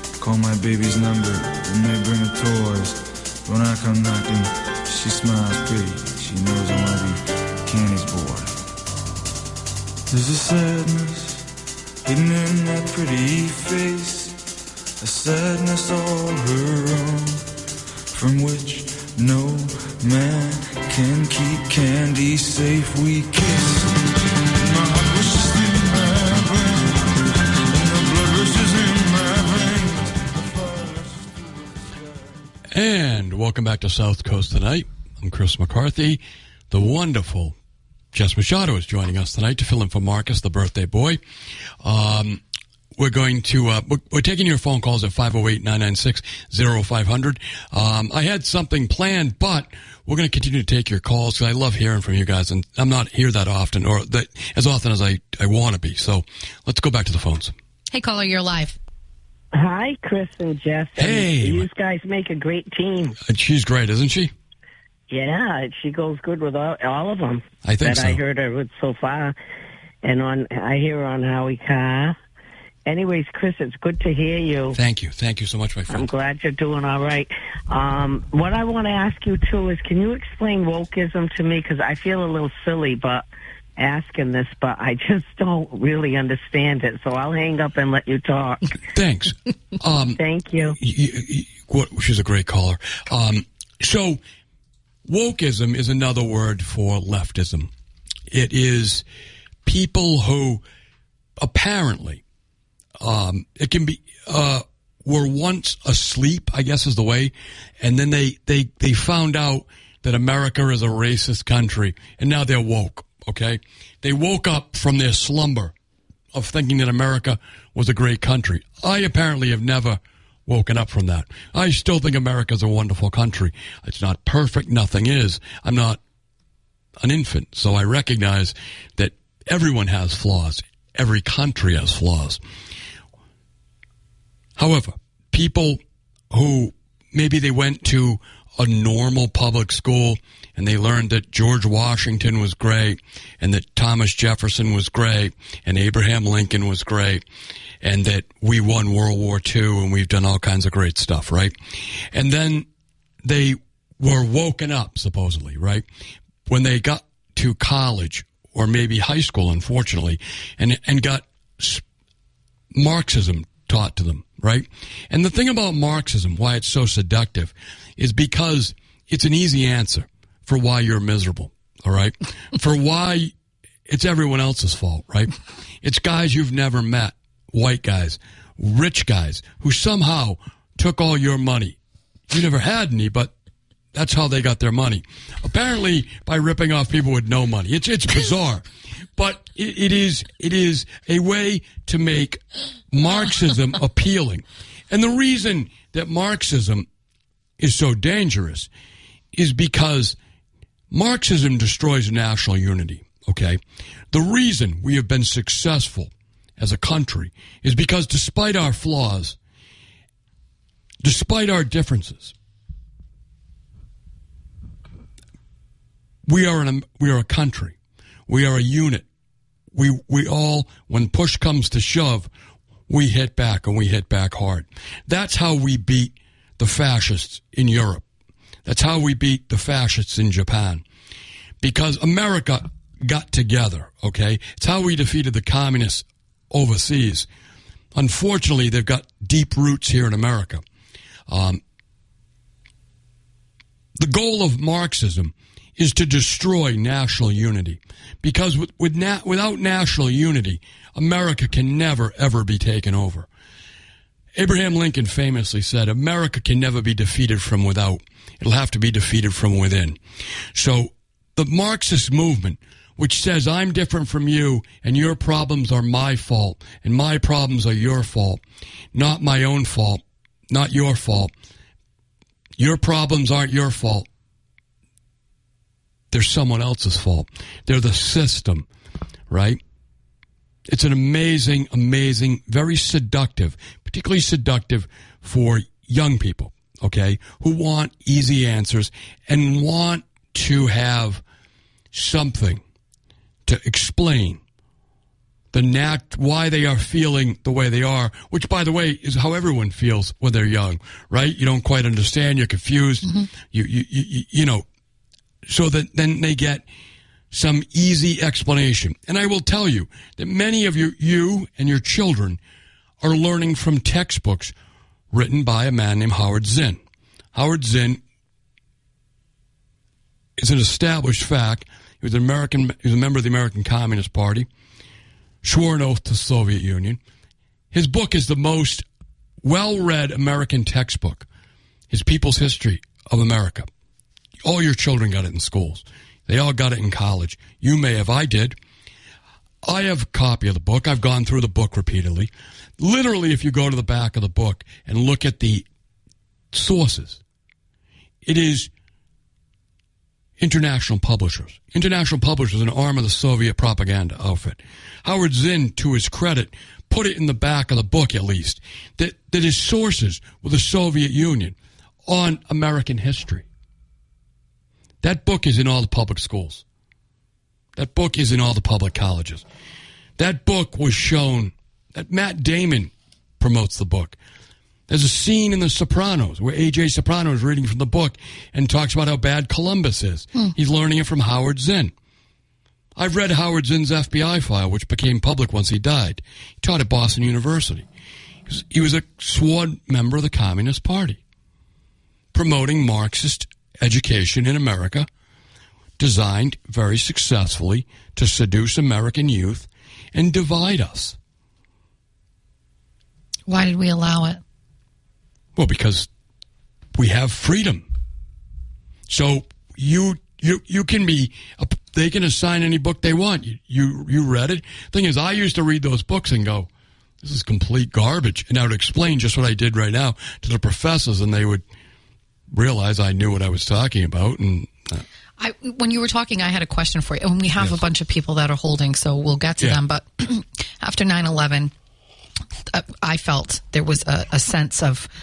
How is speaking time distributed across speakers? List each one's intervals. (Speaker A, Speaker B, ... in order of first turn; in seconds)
Speaker A: 0.2-8.6, 10.1-11.5, 12.0-14.5, 15.0-17.5, 18.1-23.9, 24.5-32.4
Speaker B: 32.7-37.5, 38.1-41.2, 41.8-42.4, 43.0-57.5, 61.0-61.7, 63.2-64.3, 67.6-68.2, 74.7-76.1, 88.9-90.2, 90.8-94.2, 95.0-97.7, 98.3-99.0, 99.6-100.6, 101.4-102.2, 103.0-115.7, 116.3-126.0, 127.0-132.4, 134.6-147.2, 147.8-151.5, 152.1-152.7, 153.2-155.8, 156.5-161.8, 162.7-173.3, 173.9-181.8, 182.3-183.3, 183.9-196.8, 197.6-198.7, 199.3-200.2, 200.9-203.6, 204.1-209.4, 211.0-212.3, 216.3-217.7, 218.3-219.0, 219.7-222.3, 222.9-228.0, 228.7-230.8, 231.6-237.3, 237.9-240.6, 241.3-241.6, 244.0-253.3, 254.3-260.0, 260.5-268.4, 268.9-271.3, 272.6-274.1, 276.1-278.7, 279.3-279.6, 280.7-291.2, 291.9-292.6, 293.4-294.4, 295.5-304.6, 305.5-306.6, 307.3-312.4, 313.0-314.5, 315.1-316.8, 317.3-318.0, 320.4-324.5, 325.4-327.0, 327.7-328.9, 329.4-331.2, 331.9-333.7, 334.4-338.6, 339.6-345.6, 346.5-347.2, 348.2-348.7, 350.4-363.4, 365.0-366.6, 367.8-369.4, 370.2-374.1, 374.9-381.9, 382.9-387.9, 388.5-391.2, 392.3-395.1, 396.0-401.1, 405.6-406.1, 406.9-407.8, 409.1-416.7, 417.2-421.6, 422.5-425.0
Speaker C: 57.9-58.8, 403.5-404.4, 425.4-431.7, 432.7-435.1
Speaker D: 59.5-63.1, 65.1-69.3, 70.0-72.2, 72.8-74.8, 75.9-83.2, 83.8-88.8, 90.2-90.8